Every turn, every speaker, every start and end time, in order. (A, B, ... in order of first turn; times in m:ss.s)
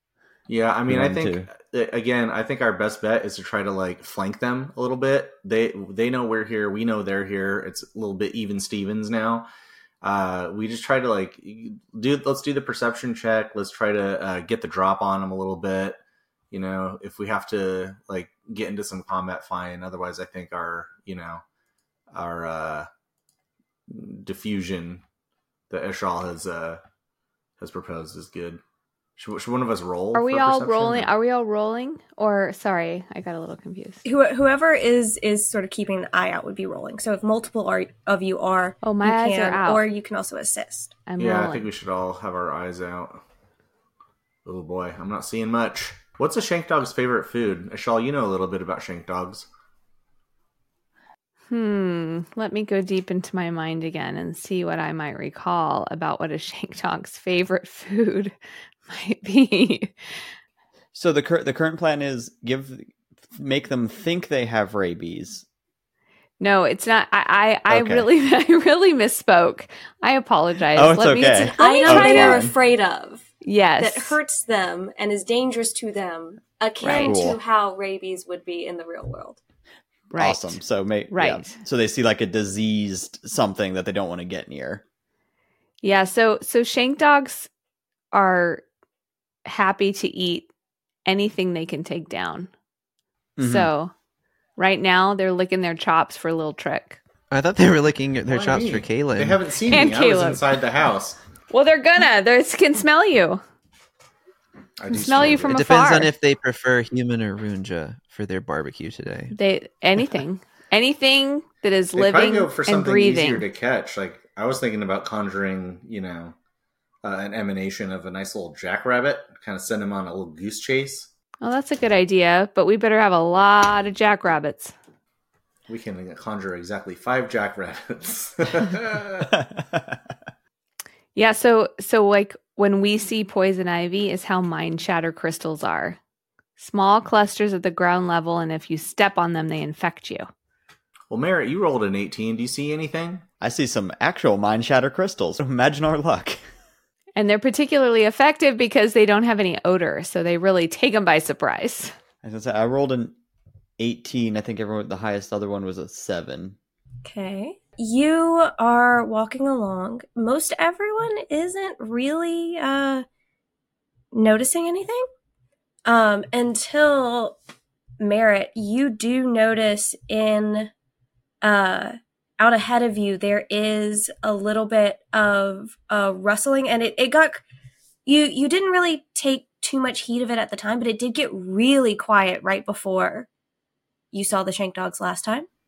0:00.5-0:09.5 A
0:00.9-0:01.5 B
0:10.0-0:16.0 A
0:16.5-0:21.4 A
0:22.1-0:22.9 A
0:23.9-0:25.0 A
0:25.7-0:26.8 A
0:27.6-0:28.6 A
0:29.2-0:31.1 A
0:30.1-0:34.0 C
0:34.0-0:40.9 D
0:38.8-0:39.8 C
0:41.1-0:41.7 C
0:41.2-0:43.2 A
0:44.4-0:49.5 A
0:51.5-1:00.3 C
1:00.9-1:05.4 B
1:06.4-1:12.5 C
1:07.7-1:08.1 B
1:10.7-1:12.5 B
1:11.4-1:19.4 D
1:13.4-1:14.2 C
1:16.8-1:17.1 C
1:17.0-1:17.4 B
1:20.1-1:20.6 C
1:20.2-1:24.8 B
1:21.1-1:21.6 C
1:25.8-1:27.5 C
1:28.1-1:28.6 C
1:29.4-1:30.5 C
1:31.1-1:32.5 C
1:33.4-1:33.7 B
1:33.4-1:33.9 C
1:34.6-1:37.0 C
1:37.3-1:39.4 E
1:38.3-1:41.2 A
1:39.6-1:40.4 C
1:41.5-1:43.4 C
1:44.8-1:45.6 A
1:44.9-1:46.1 C
1:45.5-1:49.3 E
1:49.3-1:53.4 C
1:52.0-1:56.4 A
1:57.0-2:01.1 A
2:01.4-2:04.7 C
2:05.7-2:09.3 A
2:09.3-2:10.0 B
2:11.2-2:16.0 C
2:16.6-2:20.3 C
2:21.1-2:23.2 A
2:23.4-2:26.4 B
2:27.2-2:32.0 C
2:32.2-2:33.2 B
2:33.8-2:36.6 B
2:37.0-2:43.1 D
2:44.1-2:45.1 D
2:45.9-2:47.4 D
2:48.0-2:50.7 D
2:51.4-2:57.4 D
2:58.0-3:03.3 D
3:04.1-3:05.5 D